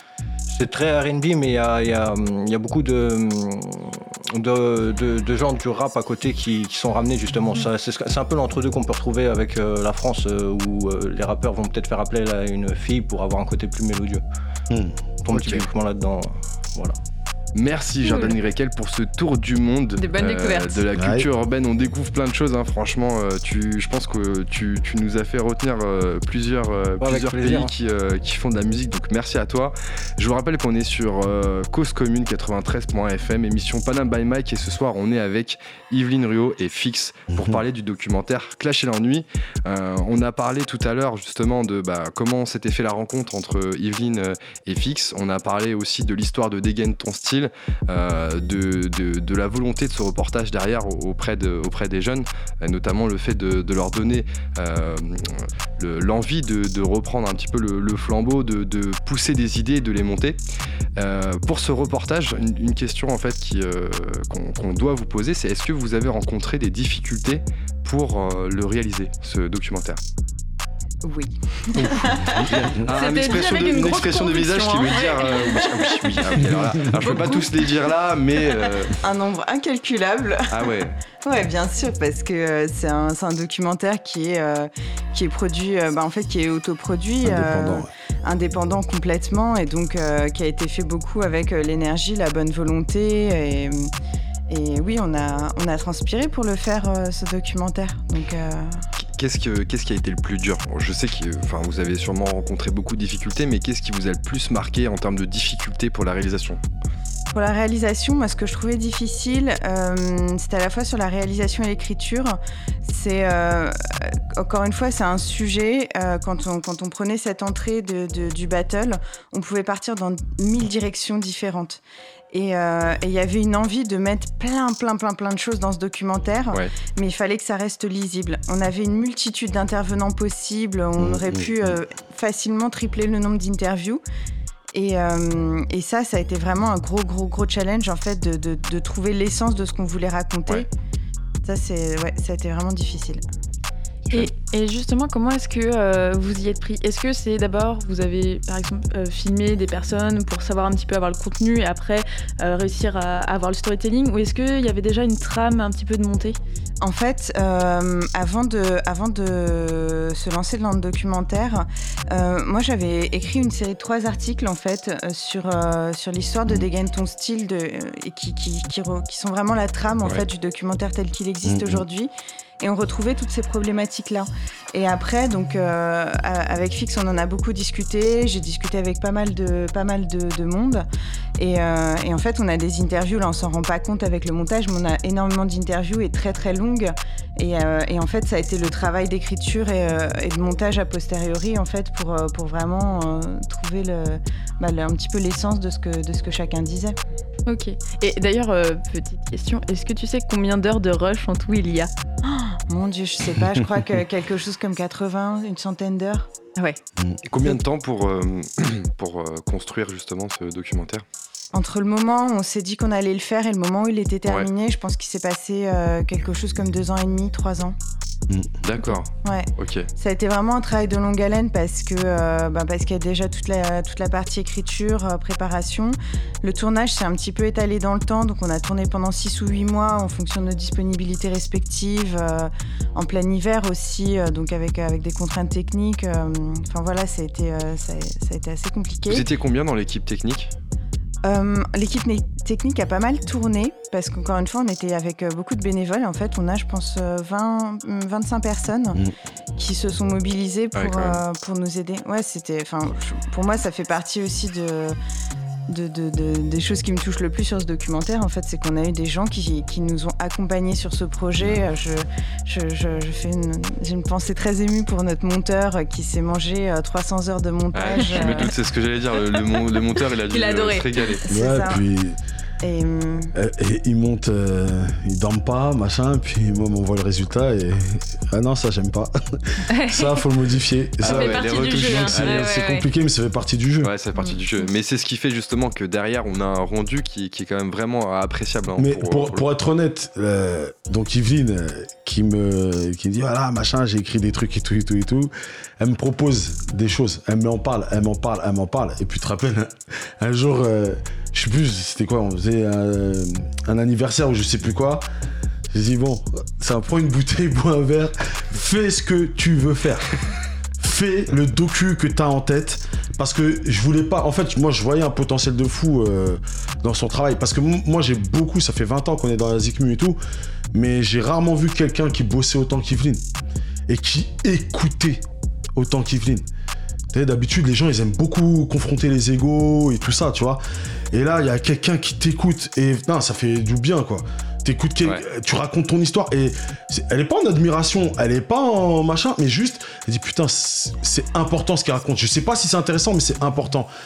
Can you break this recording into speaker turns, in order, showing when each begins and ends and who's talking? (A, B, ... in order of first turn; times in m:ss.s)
0:00.5-0:14.2 A
0:14.7-0:15.0 B
0:15.2-0:17.0 A
0:15.3-0:15.7 C
0:17.6-1:00.4 C
0:18.0-0:18.4 D
0:20.0-0:20.9 D
0:21.0-0:21.3 B
0:27.0-0:27.7 A
0:37.3-0:37.6 B
1:01.0-1:10.0 C
1:11.0-1:12.5 E
1:12.5-1:19.0 C
1:12.9-1:17.5 D
1:19.0-1:20.6 E
1:20.5-1:20.9 C
1:21.2-1:33.9 E
1:27.2-1:27.9 B
1:34.5-1:38.8 E
1:39.0-1:46.6 C
1:47.3-2:01.8 E
2:02.3-2:14.0 E
2:11.0-2:11.8 B
2:14.7-2:20.7 E
2:21.4-2:23.2 E
2:24.1-2:24.3 C
2:24.1-2:36.4 D
2:36.8-3:00.8 E
2:51.4-2:51.8 B
3:01.4-3:17.0 E
3:17.5-3:21.9 D
3:22.7-3:26.3 E
3:27.3-3:31.0 C
3:31.5-3:37.8 E
3:38.6-3:39.9 C
3:39.2-3:59.2 E
3:59.1-4:00.6 C
4:01.2-4:09.0 E
4:09.6-4:15.0 E
4:10.8-4:11.2 C
4:15.7-4:28.5 E
4:27.7-4:31.2 C
4:27.9-4:28.6 D
4:29.4-4:31.2 D
4:31.3-4:31.8 E
4:31.3-4:32.2 B
4:32.6-4:33.3 E
4:33.4-4:43.9 B
4:39.7-4:40.2 D
4:41.0-4:42.6 C
4:41.0-4:42.9 D
4:43.8-4:49.4 C
4:44.2-4:44.7 D
4:48.8-5:05.0 B
5:05.7-5:10.1 B
5:10.8-5:20.2 B
5:20.7-5:23.2 B
5:23.9-5:25.2 B
5:25.8-5:26.5 B
5:27.1-5:43.9 B